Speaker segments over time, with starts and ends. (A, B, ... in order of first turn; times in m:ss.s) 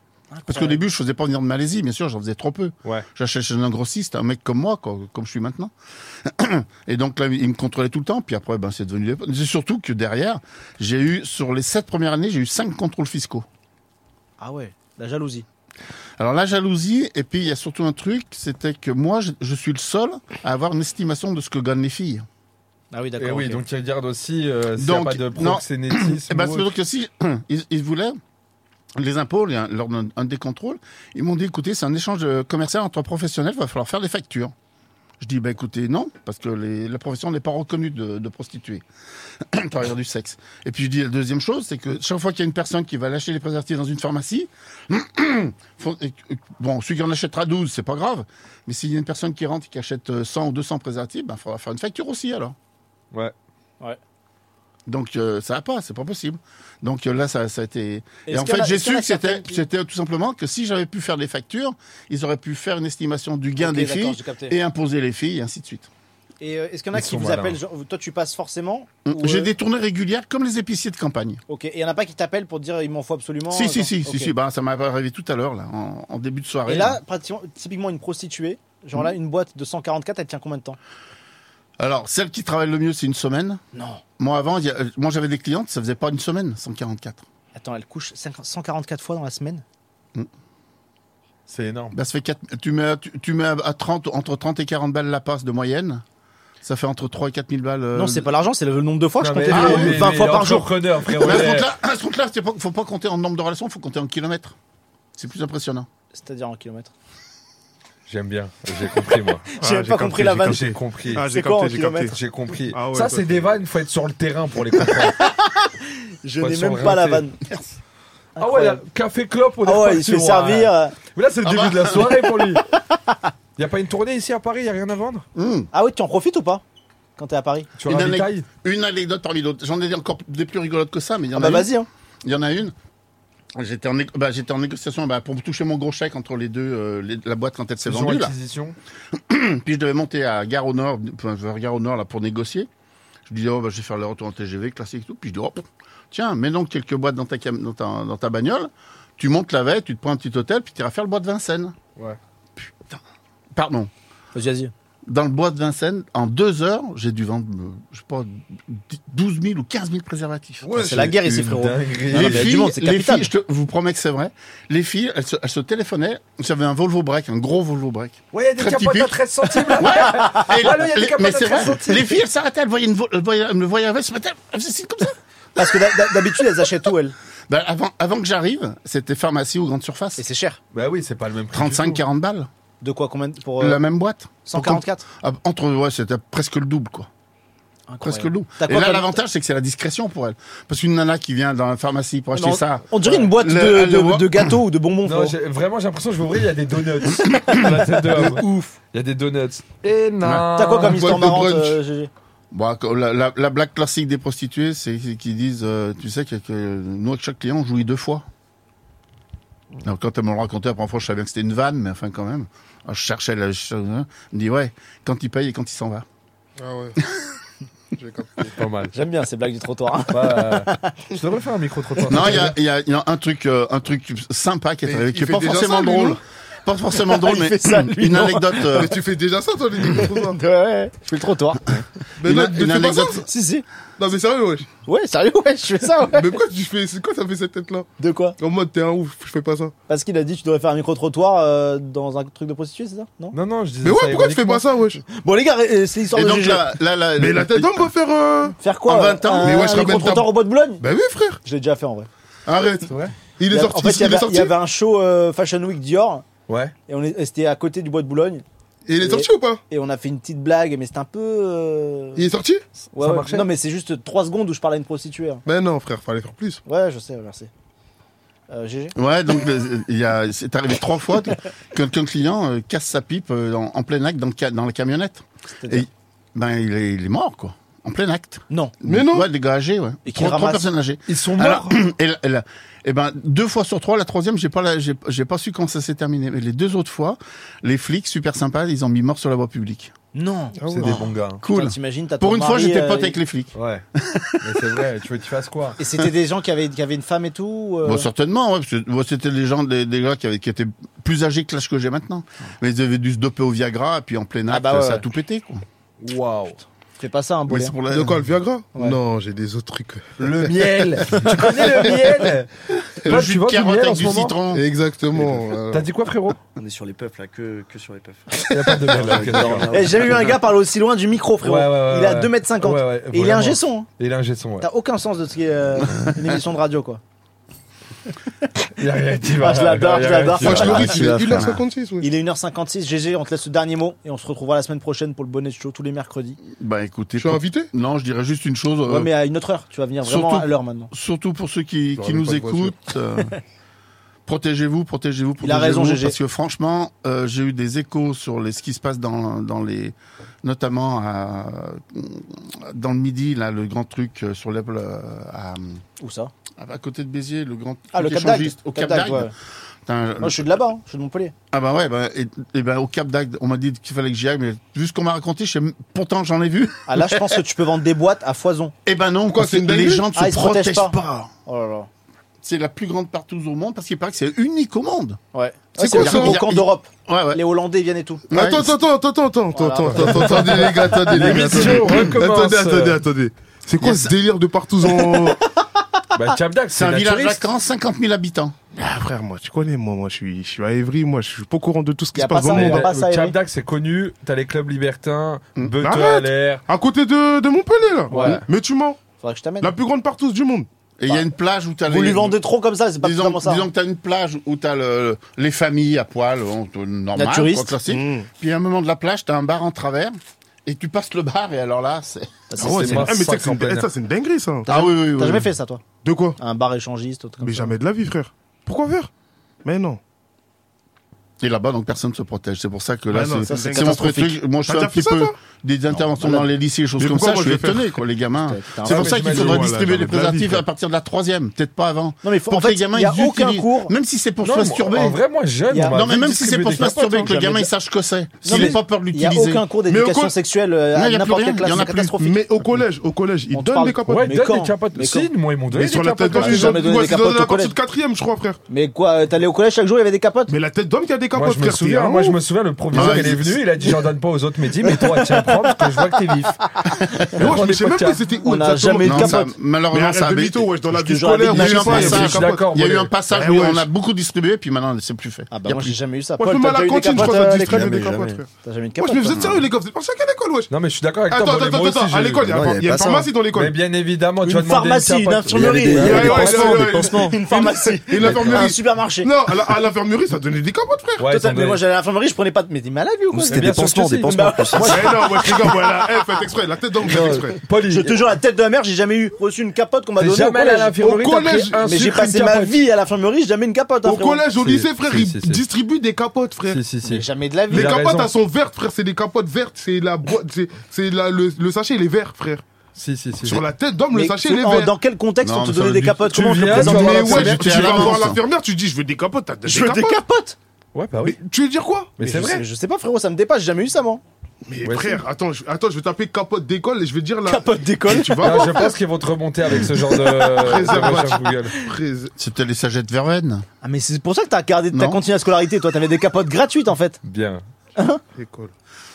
0:00.3-0:00.8 A
0:00.5-0:05.7 B
0:06.4-0:13.4 B
0:14.4-0:15.4 A
0:16.2-0:22.2 B
0:22.9-0:23.6 A
0:23.2-0:26.7 C
0:24.8-0:28.2 B
0:29.0-0:34.5 B
0:35.2-0:38.8 B
0:39.5-0:52.6 B
0:54.9-1:05.9 B
0:58.3-0:59.6 A
1:03.6-1:04.6 A
1:06.4-1:09.5 A
1:06.9-1:07.6 C
1:09.1-1:11.4 B
1:11.5-1:14.3 A
1:13.5-1:17.0 B
1:16.7-1:20.8 A
1:21.8-1:23.6 B
1:23.8-1:24.0 A
1:24.2-1:27.2 B
1:27.6-1:29.6 A
1:31.5-1:32.0 C
1:31.9-1:36.0 B
1:36.6-1:38.3 B
1:37.9-1:41.4 A
1:39.2-1:41.7 C
1:39.5-1:40.0 B
1:41.2-1:44.6 B
1:45.2-1:45.9 B
1:46.1-1:46.9 A
1:48.1-1:49.5 C
1:49.6-1:50.7 A
1:49.6-1:52.2 D
1:50.4-1:51.2 C
1:51.2-1:52.1 A
1:52.1-1:55.2 C
1:52.7-1:53.5 D
1:55.0-1:57.5 A
1:56.4-1:57.3 C
1:58.4-1:58.8 A
1:58.4-2:02.6 C
1:59.6-2:01.0 A
2:01.4-2:02.3 B
2:03.6-2:05.2 C
2:05.4-2:05.7 B
2:05.7-2:06.6 A
2:07.2-2:07.7 A
2:07.8-2:08.5 C
2:07.8-2:11.7 B
2:11.4-2:11.9 A
2:12.2-2:12.7 B
2:13.6-2:18.3 B
2:17.8-2:18.8 C
2:19.3-2:22.7 B
2:23.3-2:31.8 B
2:32.6-2:33.0 B
2:33.6-2:33.9 B
2:34.4-2:34.7 A
2:35.1-2:40.9 B
2:40.6-2:42.5 C
2:40.8-2:41.4 D
2:40.8-2:43.3 A
2:42.1-2:49.2 B
2:48.3-2:52.2 C
2:49.7-2:50.2 A
2:49.8-2:55.8 B
2:55.6-2:57.2 A
2:57.5-3:00.2 B
3:00.2-3:00.6 A
3:00.7-3:02.0 C
3:01.5-3:02.5 B
3:02.8-3:03.8 A
3:03.6-3:07.1 B
3:04.5-3:05.0 A
3:07.9-3:09.2 A
3:08.0-3:14.5 B
3:12.3-3:15.4 A
3:15.0-3:21.1 C
3:17.3-3:17.7 B
3:18.2-3:18.7 A
3:20.5-3:22.1 A
3:20.8-3:21.8 D
3:22.5-3:28.2 B
3:29.8-3:36.0 B
3:36.6-3:37.0 D
3:37.9-3:38.6 D
3:38.6-3:38.9 C
3:38.9-3:40.9 A
3:40.1-3:42.6 C
3:42.1-3:48.9 B
3:44.9-3:46.2 D
3:47.1-3:48.9 A
3:48.7-3:50.4 D
3:50.0-3:51.8 A
3:52.2-3:53.3 D
3:52.2-3:53.2 B
3:53.2-3:53.7 A
3:54.0-3:54.7 D
3:54.9-3:56.4 A
3:56.1-3:57.9 D
3:58.0-3:58.4 A
3:58.4-3:59.7 D
3:59.9-4:03.4 A
4:03.3-4:04.6 C
4:03.8-4:05.0 D
4:05.1-4:06.7 A
4:06.1-4:07.9 B
4:07.2-4:08.6 D
4:08.6-4:10.9 A
4:08.9-4:10.1 B
4:09.4-4:11.4 D
4:11.4-4:12.1 A
4:12.5-4:12.8 D
4:12.9-4:13.1 C
4:13.4-4:14.5 D
4:13.5-4:16.3 A
4:16.5-4:16.7 C
4:16.9-4:18.4 A
4:18.9-4:19.6 D
4:19.0-4:22.3 A
4:22.2-4:22.6 D
4:23.0-4:23.5 C
4:23.0-4:25.4 A
4:25.4-4:26.6 D
4:26.7-4:27.5 A
4:28.5-4:29.0 A
4:29.0-4:49.9 B
4:35.5-4:35.9 A
4:38.5-4:38.8 A
4:38.8-4:39.3 D
4:40.0-4:40.7 A
4:41.1-4:41.8 C
4:50.1-4:53.2 A
4:50.6-4:51.0 D
4:50.7-4:51.4 C
4:51.4-4:53.5 B
4:53.5-4:53.8 C
4:54.1-4:54.4 B
4:54.4-4:55.8 C
4:55.8-4:58.1 A
4:57.8-5:05.6 B
5:04.5-5:05.1 A
5:06.0-5:06.6 C
5:07.0-5:07.8 A
5:07.5-5:08.3 B
5:07.9-5:10.5 D
5:10.2-5:12.5 C
5:13.0-5:14.4 C
5:13.0-5:15.2 B
5:14.5-5:15.9 D
5:15.7-5:16.4 C
5:16.6-5:20.4 E
5:18.5-5:19.8 C
5:19.7-5:23.9 A
5:21.4-5:24.7 C
5:24.6-5:27.0 A
5:28.8-5:31.0 C
5:29.2-5:36.4 A
5:30.3-5:32.1 D
5:30.8-5:31.6 E
5:36.5-5:39.1 B
5:37.2-5:37.7 D
5:38.9-5:40.9 A
5:40.0-5:43.3 B
5:42.0-5:42.8 D
5:44.3-5:55.8 B
5:45.4-5:46.2 A
5:56.0-5:56.3 A
5:56.6-5:59.3 B
5:57.9-5:59.3 A
5:59.9-6:00.5 B
6:00.2-6:01.4 A
6:01.5-6:07.3 B
6:06.9-6:08.7 A
6:08.9-6:11.3 B
6:09.3-6:10.1 D
6:10.1-6:11.9 A
6:12.4-6:15.2 B
6:15.3-6:18.3 A
6:15.8-6:16.4 D
6:15.9-6:17.4 B
6:18.3-6:18.7 B
6:18.3-6:25.4 D
6:19.5-6:21.7 A
6:21.1-6:23.0 C
6:23.8-6:24.1 B
6:26.2-6:27.5 C
6:26.7-6:28.5 B
6:28.8-6:32.9 D
6:32.2-6:33.4 A
6:32.5-6:36.6 C
6:35.8-6:39.0 D
6:38.1-6:38.4 A
6:38.1-6:38.4 C
6:39.2-6:39.7 A
6:39.6-6:40.7 D
6:41.0-6:42.4 B
6:41.9-6:43.7 A
6:43.0-6:52.5 B
6:47.2-6:47.8 A
6:47.9-6:48.3 D
6:52.5-6:53.3 A
6:52.6-6:54.7 D
6:52.6-6:53.9 C
6:54.7-6:55.8 A
6:54.7-6:55.5 B
6:56.0-6:56.4 D
6:56.4-6:57.8 A
6:57.4-6:59.1 D
6:59.6-7:00.0 D
7:01.4-7:15.2 B
7:03.1-7:05.4 D
7:03.4-7:04.4 A
7:06.0-7:06.5 A
7:07.0-7:08.0 D
7:08.5-7:09.5 A
7:08.9-7:09.7 C
7:09.0-7:10.6 D
7:12.2-7:13.9 A
7:14.4-7:17.4 C
7:15.7-7:17.7 A
7:15.9-7:19.6 B
7:18.4-7:22.6 A
7:18.5-7:18.8 C
7:19.9-7:20.4 D
7:21.0-7:22.2 B
7:22.2-7:24.3 D
7:23.5-7:25.3 A
7:24.1-7:26.9 C
7:25.7-7:28.6 D
7:26.2-7:27.8 A
7:28.7-7:30.6 A
7:30.5-7:32.4 D
7:31.4-7:36.6 C
7:32.9-7:33.6 B
7:32.9-7:33.9 D
7:34.8-7:36.0 A
7:37.4-7:42.7 D
7:37.4-7:38.3 C
7:38.4-7:39.6 A
7:39.0-7:40.7 B
7:40.9-7:42.4 A
7:41.5-7:45.9 B
7:41.9-7:43.1 C
7:43.3-7:43.9 D
7:45.5-7:49.4 A
7:46.4-7:50.7 D
7:47.6-7:48.4 E
7:50.7-7:52.6 C
7:51.3-7:53.8 D
7:52.5-7:53.3 E
7:53.5-7:58.7 C
7:54.4-7:59.3 A
7:55.5-7:57.4 E
7:55.9-7:57.4 D
7:58.1-8:01.3 D
8:01.2-8:01.8 C
8:01.2-8:06.3 A
8:03.3-8:05.1 E
8:03.5-8:04.4 C
8:04.9-8:07.6 D
8:07.0-8:08.2 C
8:07.8-8:11.0 A
8:10.2-8:12.8 C
8:11.0-8:11.8 D
8:11.8-8:14.5 A
8:14.0-8:16.8 D
8:14.6-8:15.6 C
8:16.7-8:18.3 C
8:17.0-8:18.0 A
8:17.7-8:22.6 D
8:23.0-8:23.6 C
8:23.4-8:25.0 D
8:24.1-8:28.3 A
8:25.4-8:26.2 B
8:26.3-8:30.2 D
8:26.3-8:28.0 C
8:27.5-8:28.4 B
8:29.6-8:30.6 A
8:30.9-8:31.4 C
8:31.2-8:32.2 D
8:32.2-8:32.6 C
8:32.2-8:34.2 A
8:34.6-8:38.9 D
8:34.8-8:35.2 C
8:37.4-8:38.9 A
8:38.4-8:41.8 C
8:39.8-8:41.7 A
8:40.2-8:42.3 D
8:42.4-8:43.6 B
8:43.8-8:47.2 A
8:44.9-8:45.2 B
8:47.2-8:47.6 C
8:48.0-8:48.2 A
8:48.4-8:48.7 D